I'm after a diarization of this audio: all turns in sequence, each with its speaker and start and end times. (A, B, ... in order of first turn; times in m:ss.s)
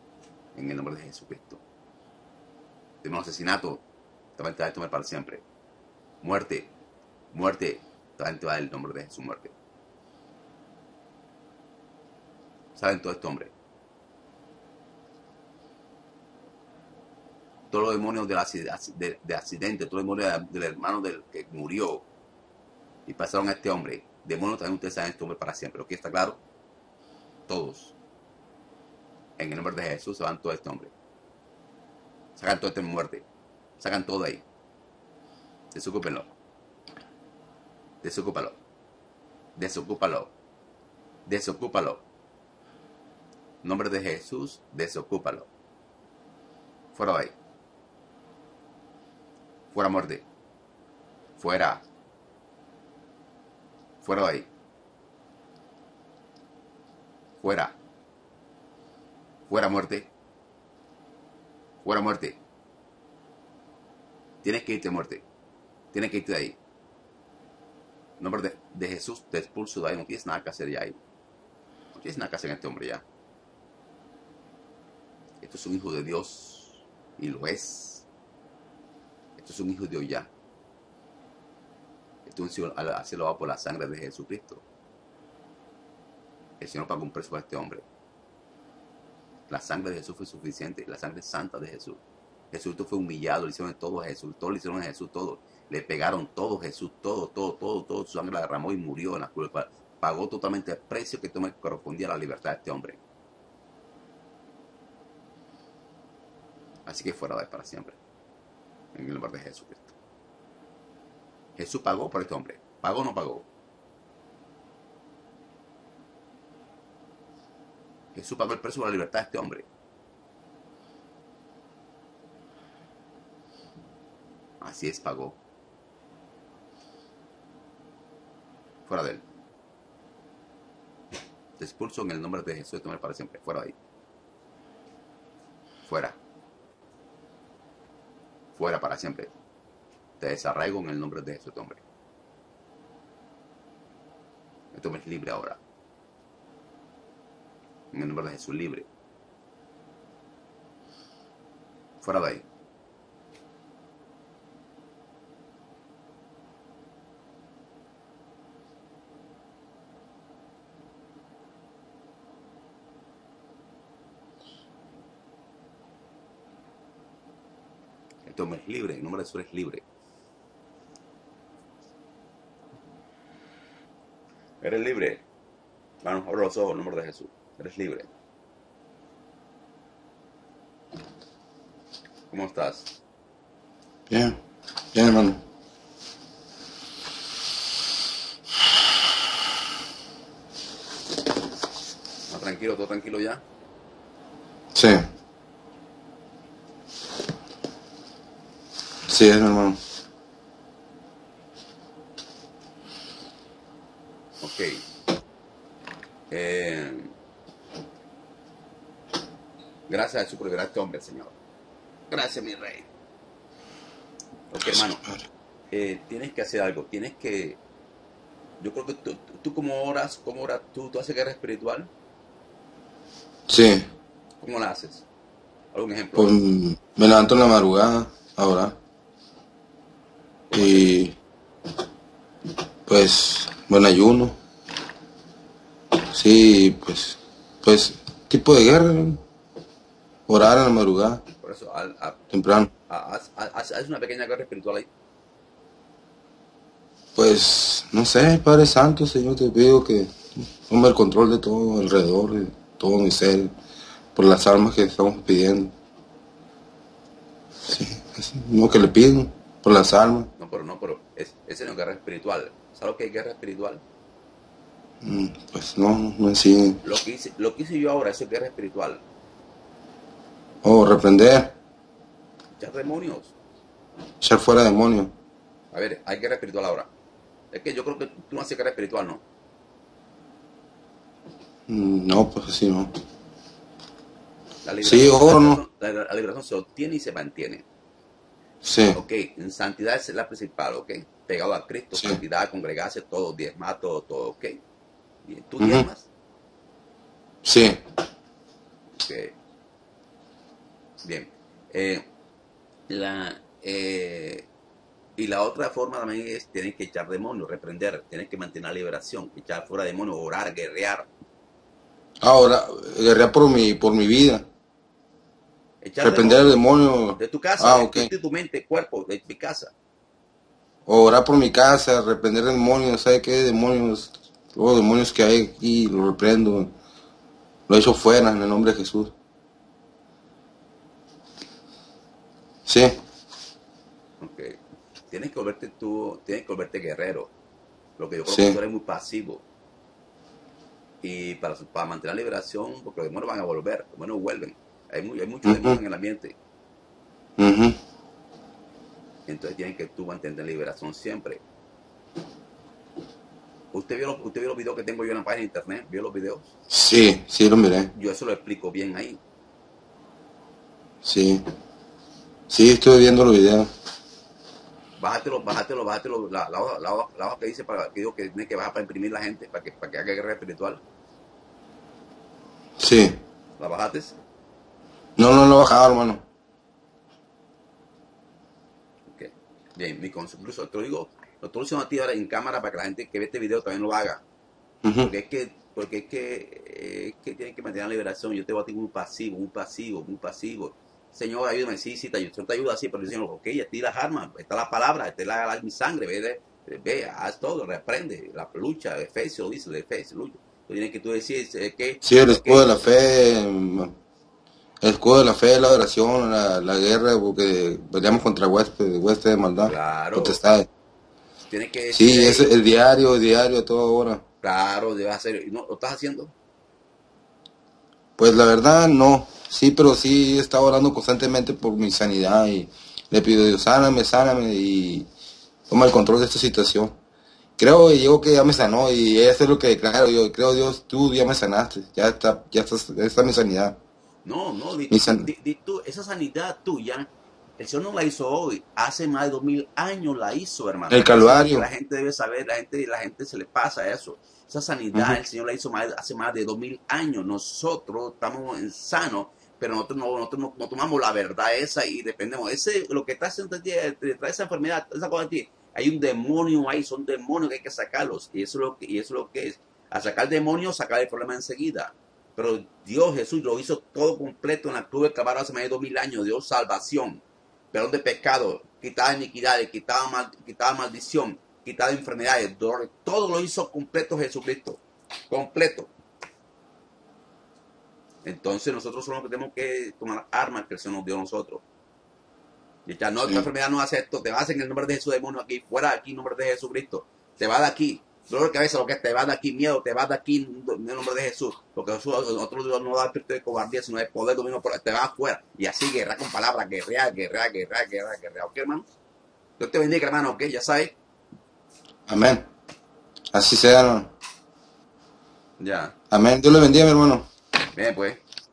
0:00.5-0:01.6 A
0:03.0-0:03.8 A
0:04.4-0:05.4 A
0:06.2-0:06.7 A
0:07.3-0:09.5 A
0:12.8-0:13.5 A
0:17.7-0:22.0 A
0:23.1-0:26.4 A
0:27.5-0:27.9 A
0:29.4-0:30.9 A
0:32.4-0:33.2 A
0:33.8-0:34.4 A
0:35.7-0:36.3 A
0:38.0-0:38.6 A
0:39.6-0:40.3 A
0:41.3-0:42.0 A
0:43.6-0:45.5 A
0:46.9-0:47.3 A
0:49.7-0:50.2 A
0:51.4-0:51.8 A
0:54.0-0:54.5 A
0:57.4-0:57.8 A
0:59.5-1:00.1 A
1:01.8-1:02.4 A
1:04.4-1:05.2 A
1:05.9-1:06.6 A
1:08.2-1:11.0 A
1:11.9-1:13.0 A
1:15.4-1:18.0 A
1:19.4-1:20.3 A
1:22.2-1:24.6 A
1:26.6-1:27.8 A
1:29.5-1:32.0 A
1:32.5-1:43.0 A
1:46.8-1:48.0 A
1:48.9-1:49.9 A
1:51.6-1:53.4 A
1:58.1-1:59.7 A
2:04.6-2:05.4 A
2:08.9-2:09.2 A
2:11.6-2:13.8 A
2:15.9-2:16.2 A
2:18.6-2:19.3 A
2:20.2-2:21.8 A
2:24.7-2:25.6 A
2:27.9-2:28.9 A
2:32.0-2:32.4 A
2:48.2-2:49.8 A
2:54.6-2:55.2 A
2:56.0-2:58.1 A
3:02.3-3:02.9 A
3:04.1-3:04.4 B
3:04.9-3:05.4 B
3:12.3-3:13.4 A
3:14.7-3:15.0 B
3:19.1-3:19.8 B
3:24.4-3:24.8 A
3:26.3-3:27.1 A
3:29.9-3:31.3 A
3:32.1-3:32.9 A
3:34.5-3:35.0 A
3:34.6-3:35.2 B
3:35.7-3:37.6 A
3:38.6-3:41.9 A
3:43.5-3:43.8 B
3:44.4-3:45.0 A
3:45.7-3:46.4 A
3:46.2-3:48.8 B
3:50.5-3:51.0 A
3:50.5-3:51.1 B
3:52.9-3:54.4 B
3:56.1-3:59.2 B
4:00.3-4:01.2 B
4:01.4-4:02.2 A
4:02.3-4:02.7 B
4:02.9-4:04.9 A
4:07.1-4:13.5 B
4:14.1-4:15.7 B
4:17.7-4:20.3 B
4:20.4-4:23.8 A
4:25.0-4:26.8 B
4:26.8-4:29.0 A
4:30.6-4:31.5 B
4:32.6-4:33.3 A
4:34.2-4:35.1 B
4:35.7-4:36.9 A
4:37.5-4:39.2 A
4:41.7-4:42.9 B
4:44.6-4:47.6 A
4:44.8-4:45.6 B
4:48.6-4:49.0 B
4:48.9-4:54.6 A
4:55.2-4:56.1 A
4:55.6-4:55.8 B
4:57.4-4:57.8 B
4:59.0-4:59.3 A
5:01.0-5:02.1 A
5:02.9-5:04.5 A
5:05.2-5:11.1 A
5:12.2-5:14.5 B
5:15.8-5:16.6 A
5:16.0-5:18.1 B
5:17.2-5:19.7 A
5:20.8-5:26.7 B
5:27.7-5:29.1 B
5:32.6-5:33.0 B
5:34.2-5:37.3 A
5:38.0-5:39.4 A
5:38.3-5:38.6 B
5:41.0-5:46.4 A
5:45.4-5:45.8 B
5:47.4-5:47.8 B
5:49.3-5:51.4 A
5:53.7-5:56.5 A
5:56.7-5:57.9 B
5:57.9-5:59.2 A
6:01.0-6:01.4 B
6:02.5-6:03.7 B
6:05.0-6:10.8 A
6:12.8-6:13.2 B
6:13.6-6:14.2 A
6:15.2-6:16.2 B
6:19.1-6:24.2 A
6:24.8-6:25.1 B
6:25.0-6:42.7 A
6:42.0-6:43.9 B
6:44.8-6:50.7 B
6:49.6-6:50.4 A
6:51.5-6:52.5 A
6:51.9-6:54.2 B
6:54.4-6:56.3 A
6:58.2-7:05.1 B
7:05.7-7:07.0 B
7:07.6-7:13.8 B
7:14.2-7:55.9 A
7:14.9-7:15.3 B
7:20.9-7:21.7 B
7:24.9-7:25.2 B
7:58.2-8:01.6 A
8:02.8-8:18.8 A
8:19.6-8:20.9 A
8:22.1-8:22.5 B
8:23.3-8:24.1 B
8:25.6-8:25.9 A
8:26.1-8:27.3 B
8:27.7-8:28.2 A